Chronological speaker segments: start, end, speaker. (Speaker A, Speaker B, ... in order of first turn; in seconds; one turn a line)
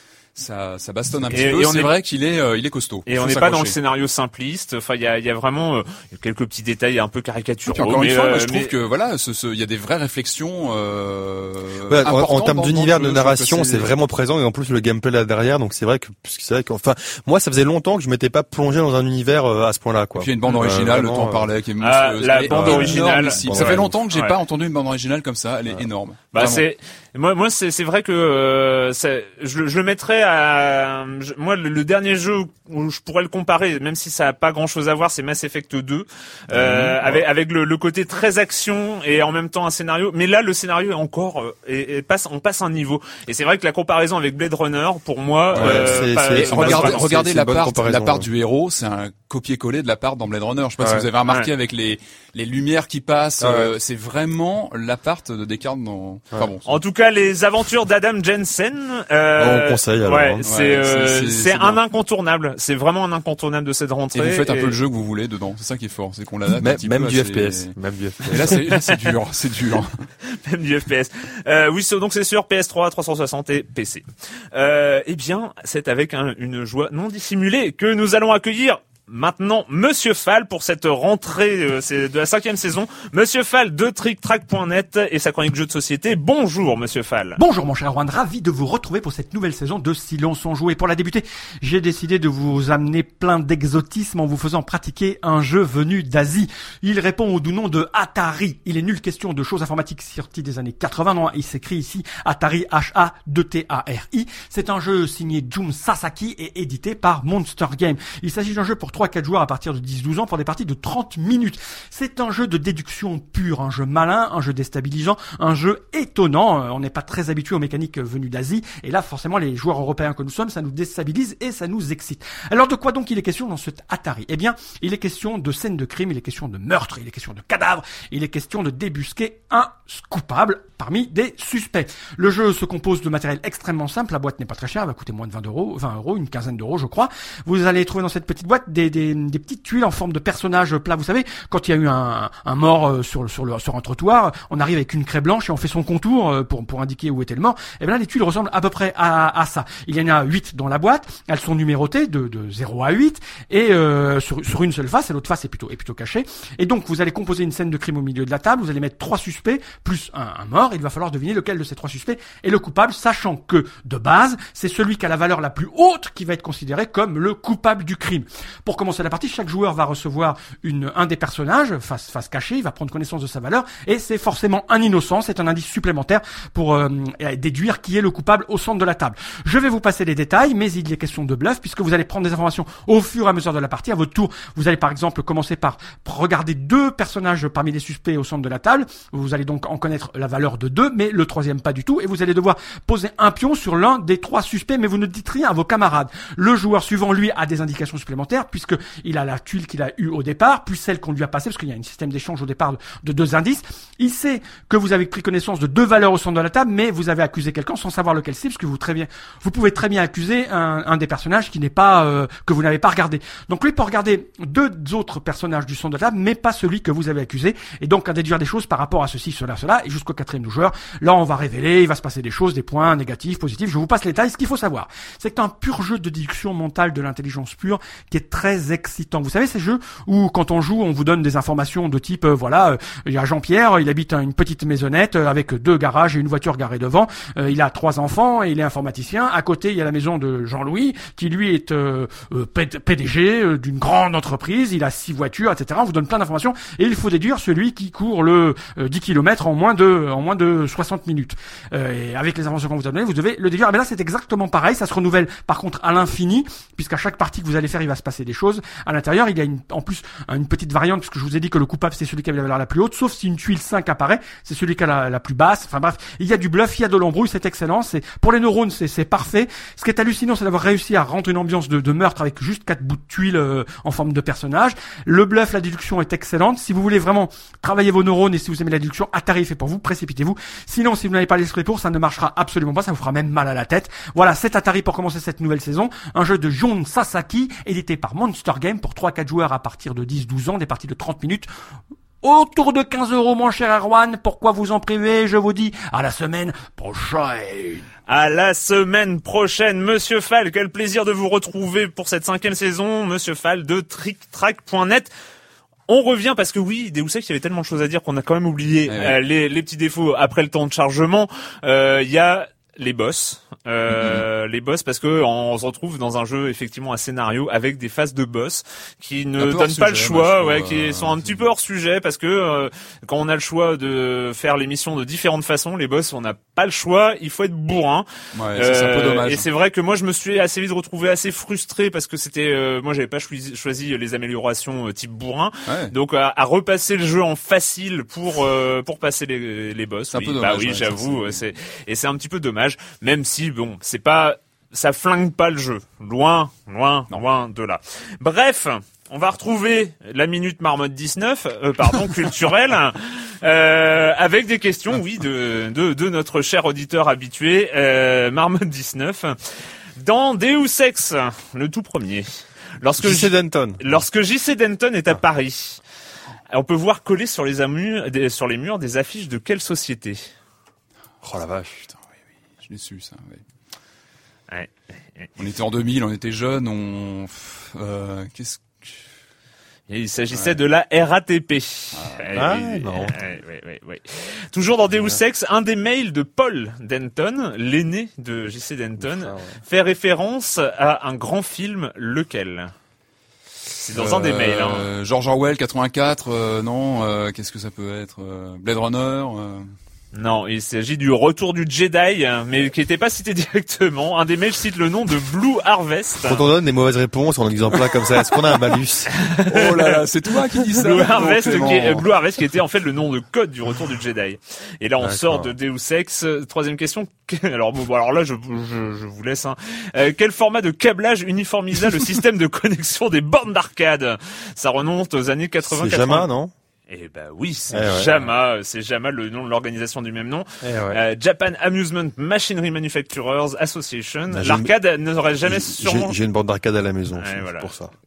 Speaker A: 0.3-3.8
Speaker B: 1.3-1.9
Speaker B: 3.1-8.7
Speaker A: 7.7-13.9
Speaker C: 11.9-21.5
Speaker A: 20.2-26.6
Speaker B: 21.8-24.4
Speaker C: 22.5-24.0
Speaker B: 26.3-47.0
Speaker A: 36.5-37.0
Speaker A: 45.5-56.7
Speaker C: 45.5-48.3
Speaker C: 50.8-51.1
Speaker C: 53.4-53.7
Speaker B: 56.7-64.8
Speaker C: 59.4-60.4
Speaker A: 60.4-61.8
Speaker A: 64.1-67.7
Speaker C: 66.6-68.6
Speaker A: 68.2-70.0
Speaker B: 70.3-87.4
Speaker D: 87.4-291.5
Speaker D: 292.2-297.9
Speaker B: 298.1-305.1
Speaker B: 305.9-359.4
Speaker A: 308.9-309.2
Speaker A: 313.9-314.2
Speaker A: 319.4-321.5
Speaker A: 328.3-329.4
Speaker A: 335.7-335.9
Speaker A: 340.1-341.4
Speaker B: 360.0-362.3
Speaker B: 362.8-365.8
Speaker C: 363.0-363.8
Speaker B: 366.5-370.2
Speaker C: 371.2-371.9
Speaker A: 372.6-373.4
Speaker B: 374.5-375.3
Speaker A: 375.4-378.9
Speaker B: 379.9-392.7
Speaker A: 381.9-382.3
Speaker C: 382.4-383.1
Speaker C: 389.0-389.6
Speaker B: 393.8-394.9
Speaker A: 393.9-399.7
Speaker B: 400.1-406.4
Speaker C: 406.2-409.1
Speaker B: 409.1-410.0
Speaker A: 409.5-412.0
Speaker B: 410.8-426.3
Speaker C: 415.0-415.5
Speaker C: 425.6-426.5
Speaker B: 426.9-436.1
Speaker C: 427.7-428.1
Speaker C: 430.6-431.0
Speaker C: 434.3-434.7
Speaker C: 435.4-437.9
Speaker B: 437.2-437.7